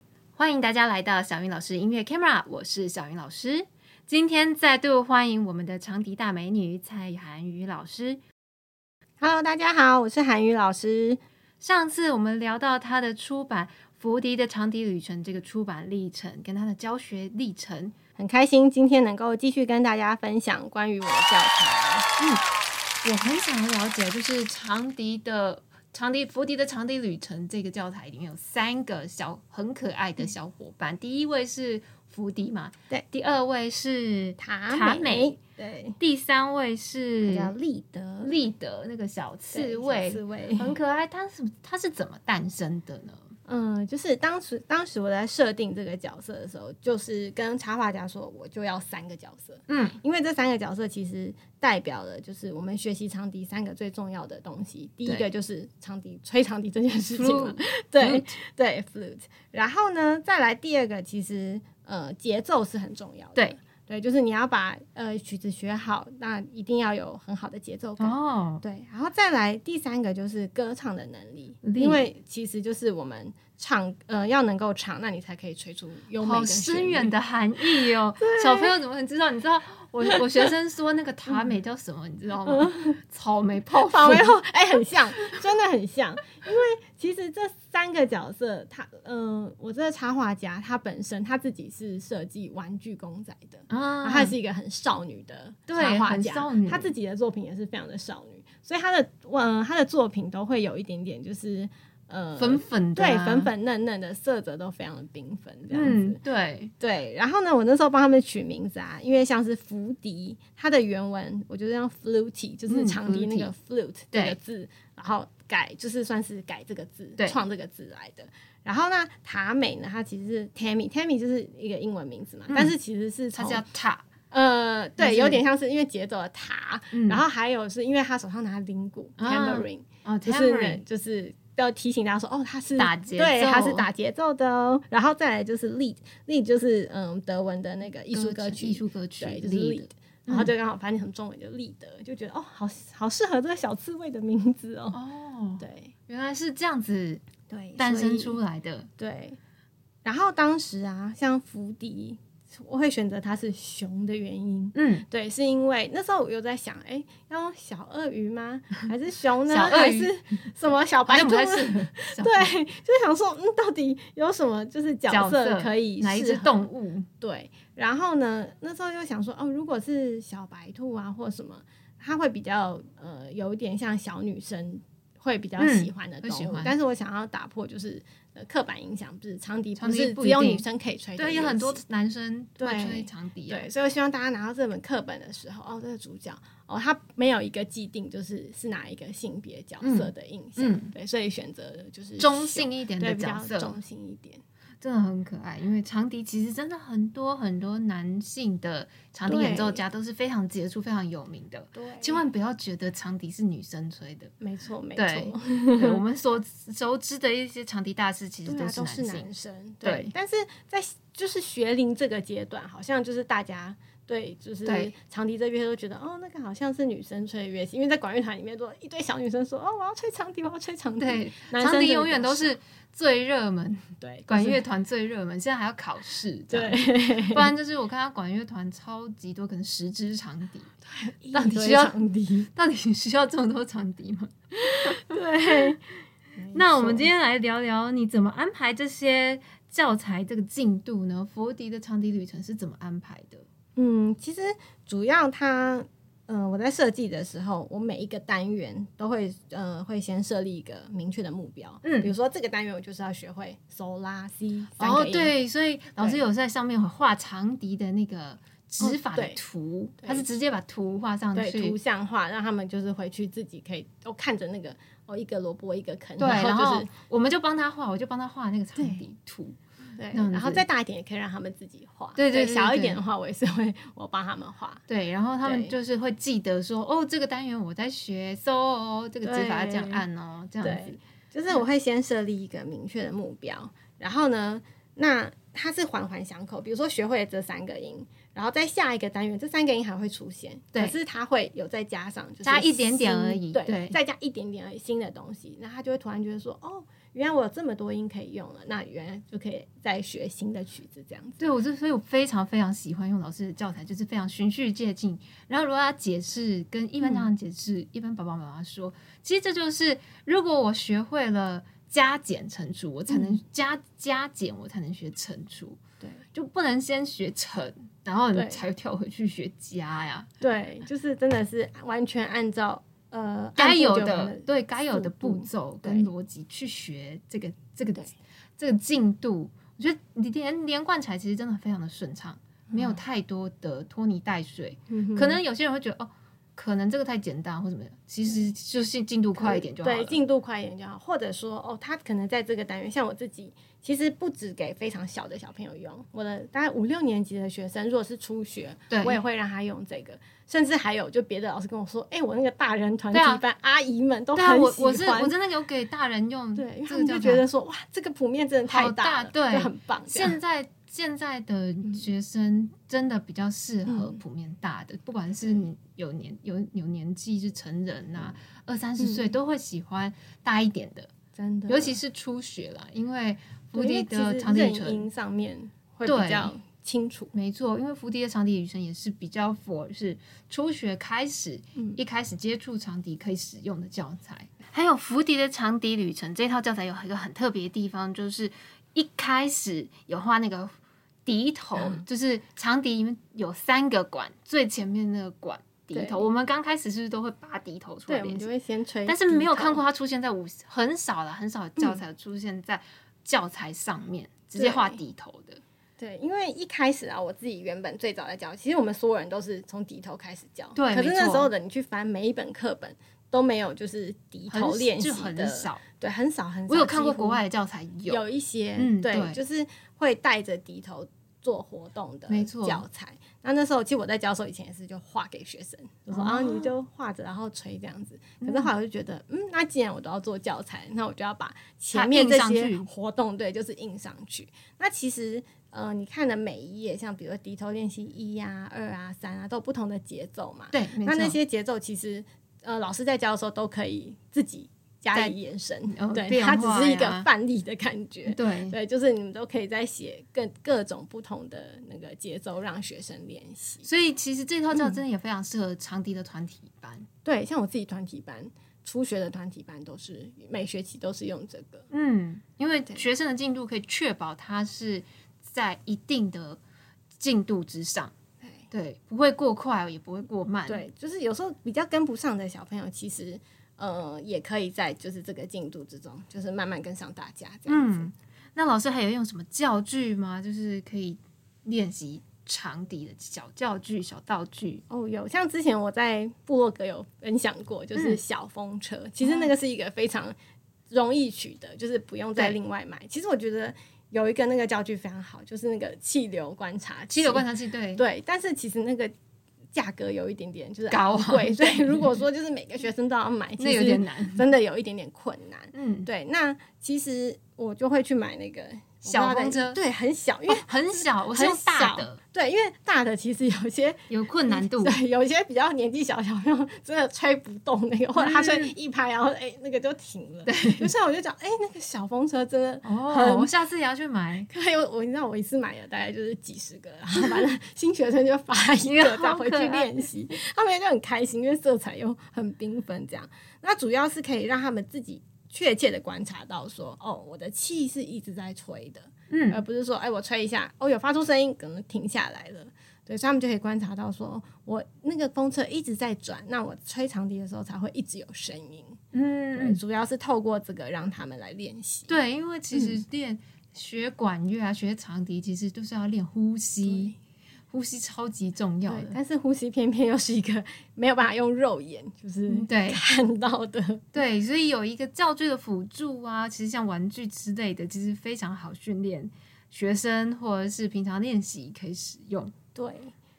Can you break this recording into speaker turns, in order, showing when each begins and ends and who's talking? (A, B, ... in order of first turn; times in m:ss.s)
0:00.4-0:08.2 A
0:09.2-0:11.2 B
0:11.6-0:17.9 A
0:18.2-0:22.1 B
0:23.0-0:35.4 A
0:34.4-0:36.0 B
0:36.0-0:37.5 A
0:37.2-0:38.3 B
0:38.2-0:43.2 A
0:39.5-0:40.7 B
0:43.4-1:17.1 B
0:49.7-0:50.0 A
0:57.1-0:58.3 A
1:08.0-1:08.6 A
1:11.6-1:12.0 A
1:16.2-1:24.3 A
1:18.2-1:18.7 B
1:22.4-1:23.0 B
1:23.8-1:46.2 B
1:33.7-1:34.3 A
1:35.7-1:36.9 A
1:42.4-1:43.5 A
1:45.7-1:46.7 A
1:46.8-2:03.6 B
1:52.7-1:53.5 A
2:03.3-2:04.0 A
2:04.3-2:25.0 B
2:05.0-2:05.4 A
2:06.9-2:07.2 A
2:09.2-2:10.8 A
2:12.8-2:13.9 A
2:18.1-2:20.5 A
2:24.9-2:27.2 A
2:25.6-2:25.9 B
2:27.5-2:28.4 B
2:27.8-2:28.9 A
2:29.0-2:29.4 B
2:30.0-2:46.6 B
2:34.7-2:35.0 A
2:39.5-2:40.1 A
2:41.0-2:42.5 A
2:45.1-2:47.1 A
2:47.2-3:01.8 B
2:55.6-2:56.7 A
2:59.8-3:00.6 A
3:01.2-3:03.7 A
3:02.6-3:14.4 B
3:09.8-3:10.9 A
3:12.2-3:13.8 A
3:14.8-3:24.3 A
3:19.2-3:19.8 B
3:21.7-3:22.2 B
3:24.4-3:26.0 B
3:24.9-3:29.3 A
3:28.4-3:42.5 B
3:29.8-3:30.1 A
3:34.6-3:34.9 A
3:41.0-3:50.7 A
3:44.0-3:44.6 B
3:46.5-3:47.5 B
3:50.9-3:52.5 B
3:51.3-3:51.9 A
3:52.5-3:54.3 A
3:54.6-3:57.1 B
3:56.5-4:03.4 A
4:03.8-4:15.3 B
4:11.8-4:12.1 A
4:14.8-4:21.8 A
4:16.0-4:16.2 B
4:18.8-4:19.4 B
4:20.0-4:20.2 B
4:21.3-4:26.9 B
4:26.2-4:29.6 A
4:28.8-4:29.0 B
4:30.0-4:34.8 B
4:30.1-4:30.6 A
4:32.2-4:33.0 A
4:34.9-4:41.0 A
4:35.4-4:35.7 B
4:39.2-4:40.0 B
4:40.6-5:01.5 B
4:52.4-4:54.0 A
5:01.4-5:15.8 A
5:07.0-5:07.3 B
5:13.1-5:13.4 B
5:16.3-5:20.3 A
5:18.3-5:18.6 B
5:20.4-5:26.1 B
5:23.6-5:40.2 A
5:32.7-5:33.0 B
5:34.9-5:35.4 B
5:39.4-5:55.4 B
5:48.9-5:49.2 A
5:53.1-5:53.4 A
5:54.3-5:57.4 A
5:56.6-6:00.4 B
5:58.7-6:11.1 A
6:03.9-6:04.2 B
6:09.0-6:09.3 B
6:11.4-6:12.0 B
6:11.7-6:15.1 A
6:13.7-6:17.3 B
6:16.0-6:16.5 A
6:17.3-6:30.7 A
6:31.2-6:38.5 A
6:31.8-6:32.0 B
6:35.9-6:36.2 B
6:38.1-6:39.8 B
6:39.0-6:45.6 A
6:44.6-6:45.0 B
6:46.0-6:57.4 B
6:50.7-6:51.5 A
6:54.5-6:55.8 A
6:56.7-6:58.2 A
6:58.1-7:33.9 B
6:58.8-6:59.4 A
7:02.3-7:02.8 A
7:06.1-7:06.7 A
7:08.4-7:08.7 A
7:11.9-7:12.9 A
7:20.7-7:21.4 A
7:25.9-7:27.3 A
7:28.2-7:28.7 A
7:33.8-7:37.1 A
7:34.7-7:35.0 B
7:37.2-7:41.9 B
7:41.9-7:46.6 A
7:47.2-7:48.1 A
7:48.4-7:48.7 B
7:48.7-7:50.8 A
7:50.7-7:58.1 B
7:57.7-8:04.8 A
8:04.9-8:10.3 B
8:09.2-8:09.5 A
8:10.9-8:19.1 B
8:17.1-8:18.0 A
8:19.7-8:43.5 B
8:20.9-8:22.2 A
8:23.6-8:24.5 A
8:25.7-8:26.1 A
8:29.0-8:29.8 A
8:30.5-8:32.2 A
8:34.1-8:35.0 A
8:38.2-8:38.7 A
8:40.4-8:40.9 A
8:42.8-8:44.5 A
8:44.5-9:09.0 B
8:48.9-8:49.9 A
8:59.3-8:59.6 A
9:09.1-9:09.8 A
9:09.5-9:12.2 B
9:12.1-9:17.1 A
9:12.7-9:13.0 B
9:16.8-9:17.1 B
9:17.7-9:19.2 A
9:18.8-9:24.0 B
9:22.5-9:23.0 A
9:24.1-9:32.5 A
9:32.7-9:33.1 B